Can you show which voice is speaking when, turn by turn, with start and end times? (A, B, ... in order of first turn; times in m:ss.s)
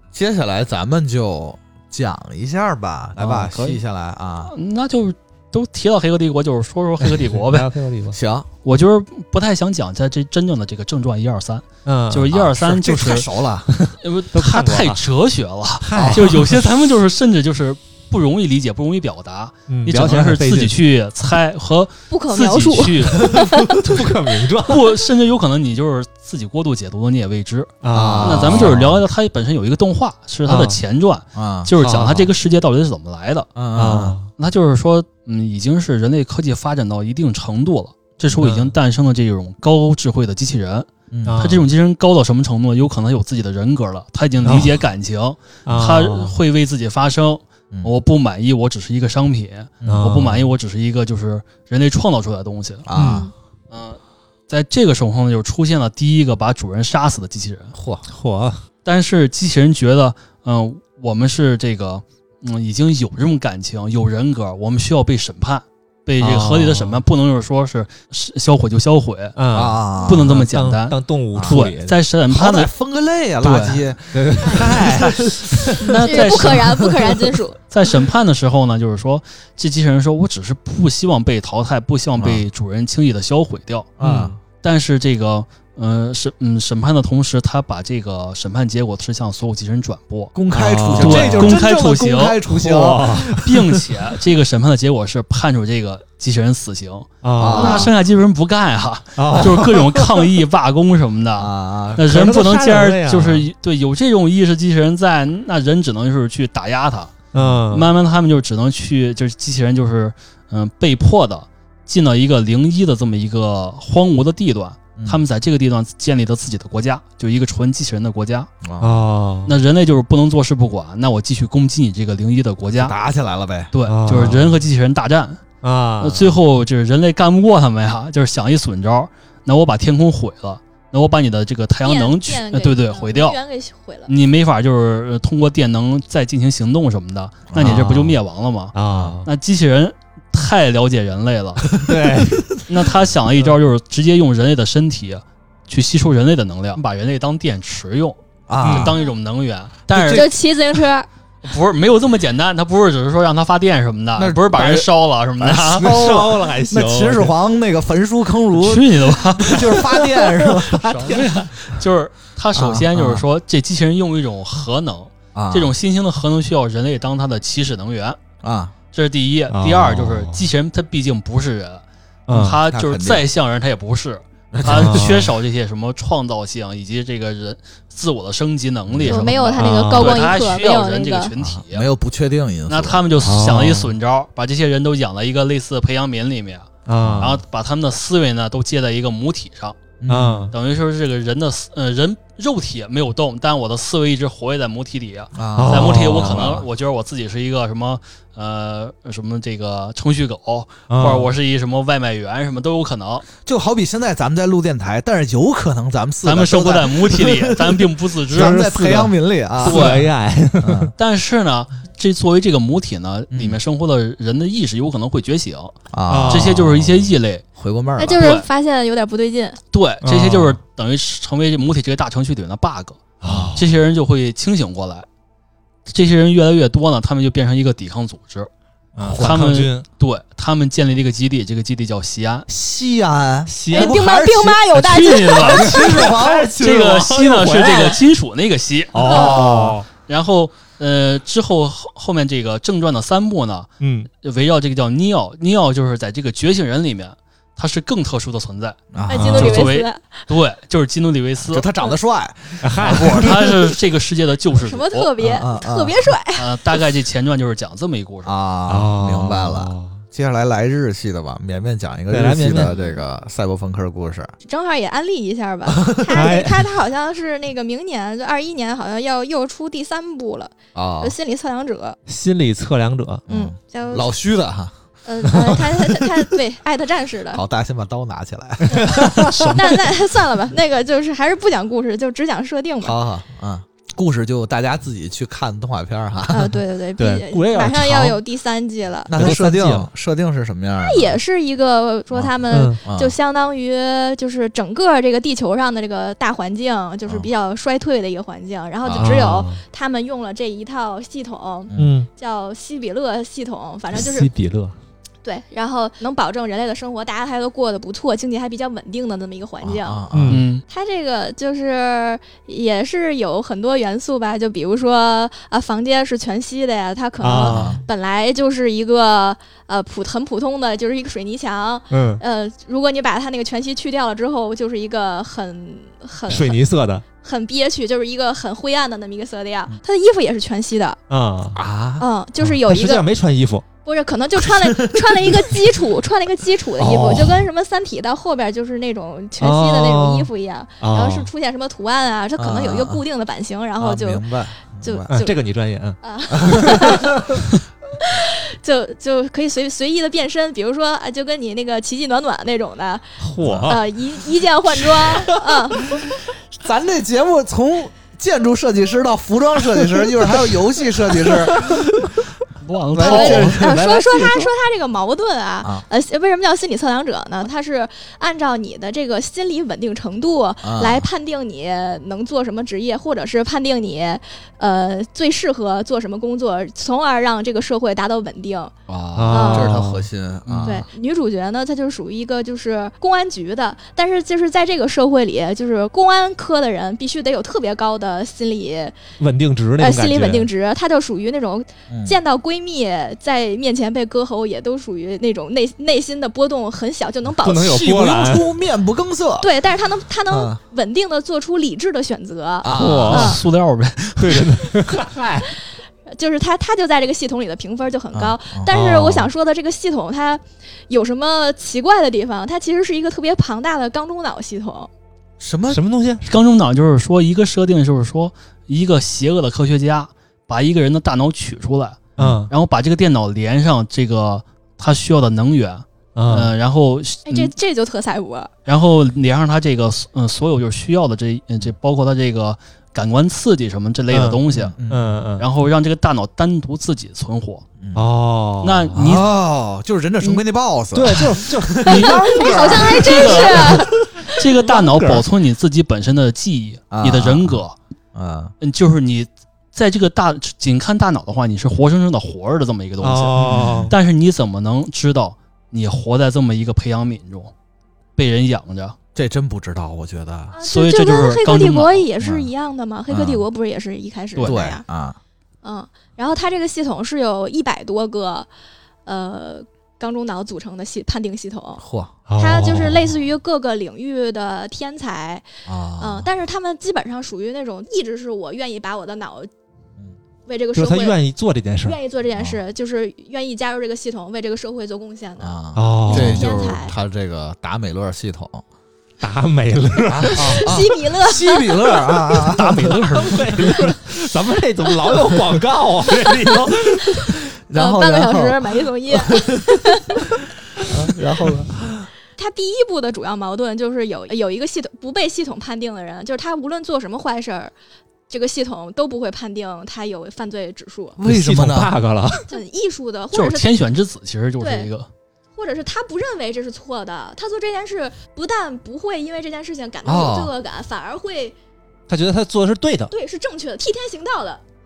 0:00.1-0:04.5 A
0:03.2-0:03.8 B
0:04.5-0:07.7 B
0:07.0-0:08.2 C
0:08.1-0:08.5 A
0:08.6-0:13.3 B
0:11.8-0:12.3 C
0:12.3-0:13.7 A
0:13.7-0:15.0 C
0:14.0-0:23.4 B
0:15.8-0:16.6 C
0:15.9-0:16.4 A
0:19.7-0:20.8 C
0:22.1-0:23.7 D
0:23.6-0:24.9 C
0:24.6-0:33.5 B
0:27.8-0:28.9 C
0:27.9-0:29.0 A
0:30.5-0:30.8 C
0:31.3-0:31.7 A
0:31.8-0:32.3 C
0:33.5-0:34.2 A
0:33.7-0:34.3 C
0:34.4-0:52.8 B
0:38.3-0:38.7 C
0:41.1-0:41.4 A
0:41.2-0:41.7 C
0:44.4-0:44.8 C
0:45.6-0:46.4 C
0:49.8-0:50.1 A
0:49.8-0:50.4 C
0:52.8-0:53.3 A
0:52.9-0:53.3 C
0:53.7-0:57.7 B
0:57.7-0:58.0 A
0:58.1-0:58.6 C
0:58.8-1:09.4 B
1:06.2-1:07.0 C
1:09.4-1:12.0 C
1:09.5-1:10.4 A
1:10.0-1:12.7 B
1:11.3-1:11.7 A
1:12.3-1:16.7 A
1:13.4-1:13.8 B
1:14.1-1:16.4 C
1:15.8-1:16.9 B
1:16.0-1:17.6 D
1:17.7-1:23.9 B
1:22.2-1:22.4 A
1:24.0-1:24.4 A
1:24.0-1:24.4 C
1:24.6-1:30.3 B
1:30.3-1:33.6 A
1:30.5-1:31.6 C
1:31.0-1:32.4 B
1:32.5-1:33.4 C
1:33.4-1:47.1 B
1:37.2-1:37.9 C
1:37.4-1:37.9 A
1:39.2-1:40.3 C
1:41.4-1:42.0 A
1:42.0-1:43.5 C
1:47.3-1:47.9 C
1:47.7-1:58.5 B
1:55.0-1:55.2 A
1:58.6-1:59.0 A
1:58.8-1:59.5 C
1:59.5-2:03.0 B
2:02.8-2:03.7 A
2:03.7-2:05.4 B
2:03.8-2:04.6 C
2:05.6-2:06.4 C
2:06.0-2:13.4 B
2:11.8-2:14.1 D
2:14.1-2:21.7 B
2:17.5-2:17.8 A
2:17.6-2:18.2 C
2:18.7-2:19.3 C
2:18.9-2:19.2 A
2:21.8-2:22.5 C
2:22.7-2:30.3 B
2:28.5-2:29.0 A
2:28.6-2:29.0 C
2:29.9-2:30.3 A
2:30.1-2:31.1 D
2:31.4-2:35.9 B
2:34.2-2:34.9 A
2:35.4-2:41.1 A
2:35.7-2:37.3 C
2:38.6-2:39.9 B
2:39.6-2:41.5 C
2:40.9-2:48.2 B
2:42.5-2:43.2 A
2:45.3-2:45.7 A
2:48.4-2:48.7 A
2:48.9-3:01.9 B
2:49.5-2:50.4 C
2:52.3-2:52.6 C
2:52.7-2:53.2 A
2:54.5-2:55.2 A
2:54.6-2:55.3 C
2:58.9-2:59.3 A
2:59.0-3:01.3 D
2:59.5-3:00.4 C
3:01.4-3:03.0 A
3:02.7-3:09.8 B
3:03.2-3:03.9 C
3:06.8-3:07.4 C
3:07.0-3:07.4 A
3:10.0-3:10.5 A
3:10.1-3:10.5 C
3:10.5-3:23.3 B
3:15.3-3:16.6 A
3:15.6-3:16.6 C
3:20.9-3:21.3 C
3:23.4-3:30.0 A
3:26.2-3:28.6 B
3:28.3-3:30.9 C
3:29.6-3:30.1 B
3:30.6-3:30.9 A
3:31.0-3:35.8 B
3:33.3-3:33.6 A
3:35.9-3:36.7 A
3:36.1-3:36.9 C
3:36.3-3:37.4 B
3:37.6-3:38.4 A
3:38.0-3:39.6 D
3:38.2-3:38.5 B
3:39.7-3:43.0 B
3:40.0-3:40.6 C
3:43.2-3:43.6 C
3:43.2-3:43.6 A
3:43.6-3:45.1 B
3:45.9-3:48.5 B
3:49.0-3:49.8 C
3:49.0-3:49.4 A
3:49.1-3:52.5 B
3:52.5-3:56.8 A
3:53.5-3:54.0 C
3:53.7-3:55.8 D
3:54.7-3:56.0 B
3:55.5-3:58.0 C
3:56.6-3:59.4 B
3:58.9-3:59.9 C
3:59.0-3:59.8 A
3:59.1-3:59.4 D
4:00.0-4:11.7 B
4:03.8-4:04.1 C
4:08.9-4:09.7 A
4:09.1-4:10.1 D
4:09.1-4:09.7 C
4:11.5-4:13.5 A
4:12.6-4:13.4 C
4:12.8-4:15.1 B
4:14.6-4:16.5 D
4:15.2-4:16.1 A
4:16.3-4:18.3 B
4:18.2-4:24.3 A
4:18.7-4:20.0 C
4:22.1-4:22.7 C
4:22.6-4:23.0 D
4:24.4-4:32.0 D
4:25.8-4:26.3 A
4:26.1-4:26.7 C
4:30.7-4:31.2 A
4:32.1-4:33.2 C
4:33.3-4:34.7 A
4:33.3-4:34.1 D
4:35.0-4:37.4 D
4:37.3-4:39.6 A
4:38.7-4:39.9 C
4:38.7-4:43.0 D
4:42.8-4:46.6 A
4:46.3-4:49.1 D
4:47.0-4:48.2 C
4:49.1-4:51.2 A
4:49.2-4:49.9 C
4:50.8-5:04.3 D
4:52.5-4:52.8 C
4:52.8-4:53.1 A
4:58.8-4:59.2 A
4:58.9-4:59.6 C
5:01.7-5:01.9 A
5:01.8-5:02.1 C
5:03.9-5:04.7 C
5:05.2-5:10.0 D
5:09.6-5:10.4 A
5:10.1-5:10.4 C
5:10.3-5:10.6 B
5:10.7-5:26.6 D
5:17.2-5:17.8 C
5:17.4-5:17.8 A
5:21.9-5:22.2 C
5:26.3-5:27.0 C
5:27.2-5:31.0 D
5:31.1-5:31.6 C
5:31.5-5:32.0 A
5:32.0-5:33.0 D
5:32.4-5:33.6 C
5:33.8-5:44.2 D
5:34.6-5:35.4 A
5:36.8-5:37.5 C
5:39.4-5:41.3 C
5:42.4-5:43.0 A
5:43.8-5:45.1 A
5:44.8-5:45.4 D
5:45.1-5:47.4 C
5:46.0-5:47.3 D
5:46.3-5:47.1 A
5:48.0-5:56.0 D
5:53.2-5:53.9 C
5:53.4-5:53.8 A
5:54.8-5:55.6 C
5:56.6-6:01.8 A
6:01.2-6:02.1 C
6:02.6-6:03.7 B
6:02.9-6:03.8 A
6:03.0-6:18.7 D
6:03.4-6:04.4 C
6:10.6-6:11.1 A
6:18.9-6:20.9 A
6:19.2-6:20.1 C
6:19.3-6:19.8 D
6:20.4-6:20.8 B
6:20.6-6:28.9 D
6:29.2-6:30.5 C
6:29.8-6:38.0 D
6:31.9-6:32.2 A
6:37.4-6:38.5 C
6:37.6-6:39.5 A
6:39.4-6:43.4 D
6:40.3-6:40.6 A
6:42.6-6:43.3 A
6:42.7-6:43.4 C
6:43.0-6:44.6 B
6:44.2-6:45.5 C
6:46.1-6:54.9 D
6:48.1-6:48.7 A
6:48.7-6:49.3 C
6:55.4-6:55.8 A
6:55.7-6:56.3 C
6:56.2-7:07.5 B
7:02.2-7:02.5 C
7:06.1-7:06.5 C
7:07.3-7:08.5 D
7:08.6-7:14.8 B
7:14.1-7:15.4 C
7:14.5-7:15.1 A
7:15.4-7:17.6 B
7:17.8-7:18.0 A
7:17.9-7:19.0 C
7:18.6-7:19.3 B
7:18.9-7:23.8 A
7:20.9-7:25.2 C
7:21.8-7:27.8 B
7:21.9-7:24.0 D
7:26.9-7:27.6 A
7:28.1-7:28.5 A
7:28.6-7:37.5 B
7:33.0-7:33.9 C
7:33.4-7:33.9 A
7:38.2-7:39.0 B
7:39.1-7:40.6 A
7:40.5-7:44.8 D
7:40.6-7:42.1 B
7:42.2-7:42.5 A
7:43.1-7:43.4 A
7:44.3-7:44.6 B
7:44.4-7:45.2 A
7:45.6-7:48.5 D
7:49.0-7:51.8 D
7:51.8-7:52.1 A
7:52.3-7:53.1 C
7:52.4-7:55.4 D
7:55.6-7:56.3 A
7:56.0-7:59.5 D
8:00.4-8:01.2 D
8:00.7-8:02.0 C
8:01.8-8:06.9 D
8:02.3-8:02.6 A
8:05.4-8:08.6 A
8:05.7-8:06.7 C
8:09.2-8:10.7 C
8:10.1-8:13.0 A
8:10.3-8:12.2 D
8:12.5-8:14.0 B
8:12.8-8:17.4 C
8:17.7-8:20.2 A
8:17.7-8:20.3 D
8:20.9-8:22.1 A
8:22.4-8:27.7 D
8:28.3-8:31.2 D
8:31.2-8:31.9 A
8:31.2-8:32.6 C
8:32.5-8:33.8 D
8:33.3-8:35.1 B
8:34.6-8:34.9 D
8:35.6-8:41.6 D
8:40.0-8:40.5 A
8:42.1-8:43.1 C
8:43.1-8:44.6 D